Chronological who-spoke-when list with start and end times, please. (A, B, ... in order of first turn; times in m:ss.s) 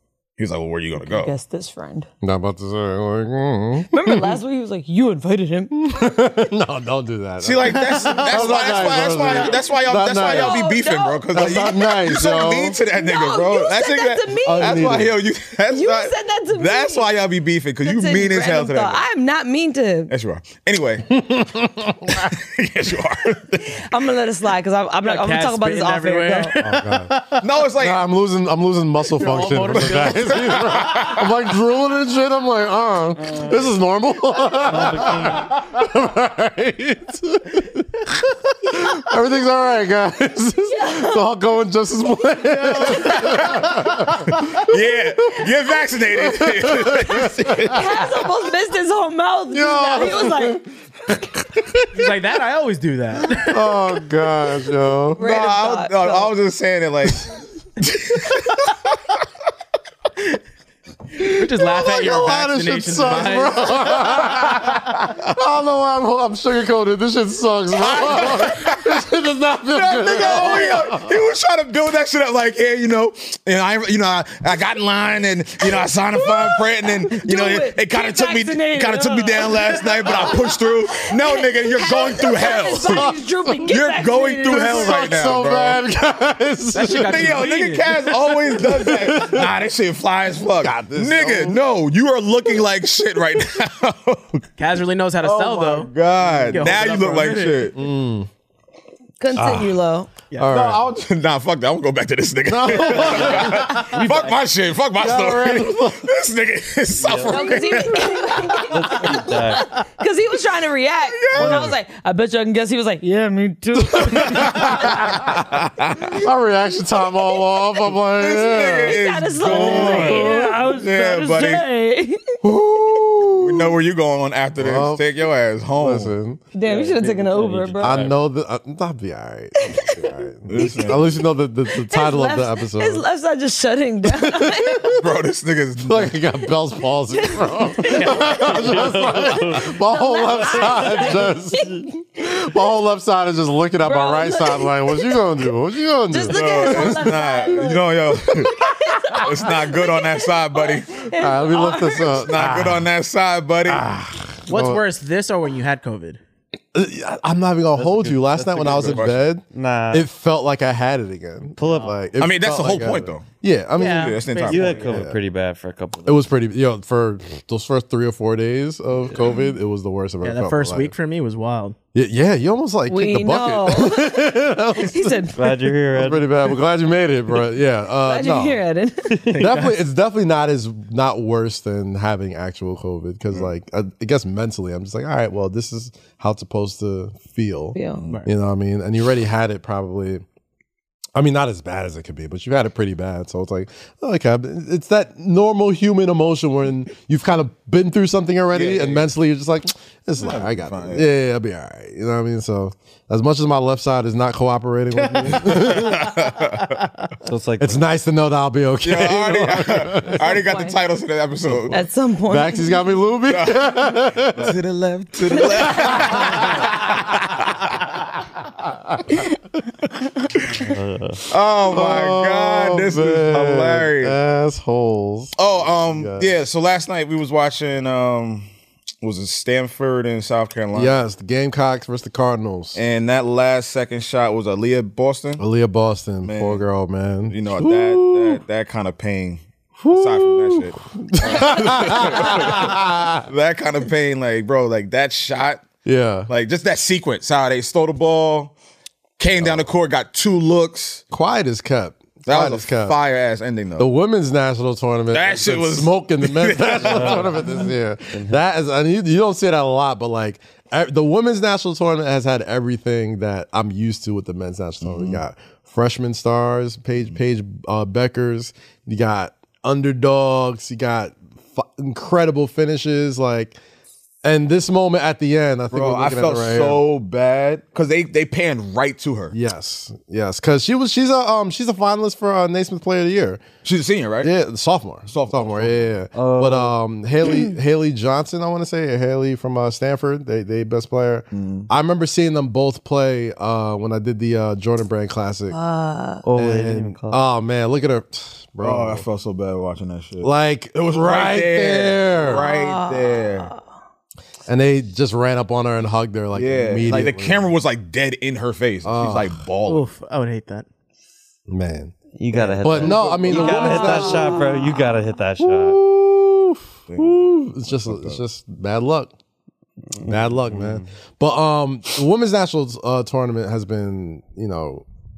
0:00.4-0:01.3 A
0:01.0-0:02.1 B
0:02.2-0:04.4 C
0:03.9-0:05.8 B
0:05.7-0:10.7 C
0:07.4-0:19.0 A
0:10.2-0:11.7 B
0:11.3-0:12.8 C
0:12.9-0:15.0 B
0:14.4-0:15.2 C
0:15.7-0:17.1 B
0:17.8-0:20.1 B
0:20.1-0:21.2 A
0:21.1-0:22.3 C
0:22.2-0:23.7 A
0:23.7-0:26.5 B
0:25.0-0:27.4 D
0:26.6-0:27.2 C
0:27.4-0:28.0 A
0:27.7-0:44.6 C
0:29.2-0:30.7 D
0:29.7-0:31.3 A
0:34.7-0:35.5 E
0:40.7-0:41.2 B
0:42.9-0:43.6 A
0:44.2-0:47.9 A
0:46.2-0:47.9 C
0:47.7-0:50.6 B
0:49.5-0:52.2 C
0:51.9-0:53.8 D
0:53.3-0:55.2 C
0:55.2-0:56.3 B
0:55.2-0:57.2 A
0:57.8-0:58.8 A
1:01.2-1:11.2 C
1:01.3-1:04.3 D
1:07.7-1:09.0 A
1:09.7-1:23.1 A
1:16.1-1:25.2 B
1:22.6-1:23.6 C
1:23.7-1:25.8 A
1:24.4-1:27.5 C
1:26.7-1:28.0 D
1:27.1-1:34.4 A
1:28.2-1:29.5 C
1:30.5-1:31.6 C
1:34.6-1:37.7 D
1:35.2-1:37.8 A
1:37.7-1:38.3 C
1:39.2-1:40.1 B
1:39.4-1:39.8 C
1:40.3-1:40.9 C
1:40.5-1:48.9 A
1:42.4-1:43.9 C
1:43.9-1:44.3 D
1:45.0-1:46.1 C
1:46.9-1:47.5 E
1:47.3-1:54.9 B
1:48.7-1:49.8 E
1:51.1-1:51.7 A
1:51.3-1:51.8 C
1:53.8-1:55.4 C
1:55.3-1:56.2 A
1:56.2-2:00.6 C
1:58.1-2:01.6 A
1:58.7-2:02.4 B
2:02.4-2:03.8 C
2:03.2-2:06.1 A
2:04.6-2:05.0 C
2:05.8-2:06.4 C
2:06.5-2:08.1 B
2:06.6-2:08.1 E
2:07.8-2:13.0 C
2:09.7-2:10.1 B
2:10.5-2:11.2 A
2:11.7-2:15.0 B
2:14.0-2:14.9 C
2:14.9-2:16.1 A
2:15.8-2:27.3 C
2:17.1-2:21.8 B
2:18.6-2:19.6 E
2:23.8-2:25.2 B
2:26.1-2:28.0 B
2:26.3-2:28.5 A
2:28.4-2:29.2 C
2:28.5-2:32.2 B
2:29.1-2:31.0 A
2:31.2-2:32.9 C
2:32.1-2:33.8 A
2:33.6-2:34.8 C
2:34.5-2:36.2 D
2:36.7-2:45.2 C
2:37.8-2:40.1 E
2:38.5-2:39.2 A
2:41.6-2:42.0 E
2:42.2-2:43.2 A
2:43.8-2:45.0 D
2:43.8-2:44.9 A
2:44.5-2:46.3 E
2:46.0-2:50.9 C
2:50.2-2:51.8 D
2:51.9-2:55.2 C
2:52.9-2:55.7 B
2:55.3-2:56.5 E
2:55.9-2:58.6 C
2:58.0-2:59.3 B
2:59.2-2:59.8 D
2:59.4-3:10.2 C
3:07.7-3:08.0 B
3:11.1-3:26.1 C
3:18.5-3:19.1 A
3:20.2-3:21.1 A
3:25.3-3:26.8 A
3:27.2-3:27.8 E
3:27.6-3:30.4 C
3:28.8-3:31.8 A
3:30.2-3:30.8 B
3:31.7-3:32.9 B
3:32.3-3:34.6 C
3:33.3-3:33.7 A
3:34.3-3:37.5 A
3:35.4-3:36.0 B
3:35.4-3:36.7 C
3:40.6-3:41.3 E
3:41.3-3:44.2 A
3:41.7-3:46.3 C
3:45.4-3:48.5 A
3:49.0-3:51.0 A
3:50.7-3:52.8 C
3:52.7-3:55.4 A
3:55.4-3:58.4 C
3:56.2-3:56.6 A
3:57.3-4:05.6 A
3:59.8-4:03.2 C
4:05.8-4:06.3 C
4:06.3-4:08.5 A
4:09.2-4:11.0 A
4:09.4-4:09.7 C
4:11.1-4:13.0 C
4:12.3-4:13.9 A
4:13.8-4:33.6 C
4:15.1-4:17.7 A
4:16.8-4:18.4 E
4:24.8-4:25.2 A
4:34.2-4:36.8 C
4:35.7-4:39.3 A
4:39.3-4:43.4 C
4:43.6-4:44.3 A
4:44.2-4:55.6 C
4:45.1-4:45.9 A
4:46.1-4:46.7 E
4:51.3-4:51.7 A
4:55.5-4:56.2 B
4:56.2-4:57.2 E
4:56.4-4:59.0 C
4:58.6-5:03.5 A
5:00.2-5:02.4 C
5:02.2-5:03.6 B
5:04.5-5:07.5 C
5:06.3-5:09.8 A
5:08.8-5:09.4 C
5:09.6-5:10.6 D
5:11.5-5:12.0 C
5:12.1-5:15.8 E
5:12.4-5:14.0 D
5:12.6-5:14.5 C
5:15.4-5:19.1 C
5:16.9-5:18.2 A
5:19.9-5:20.9 E
5:20.0-5:24.8 C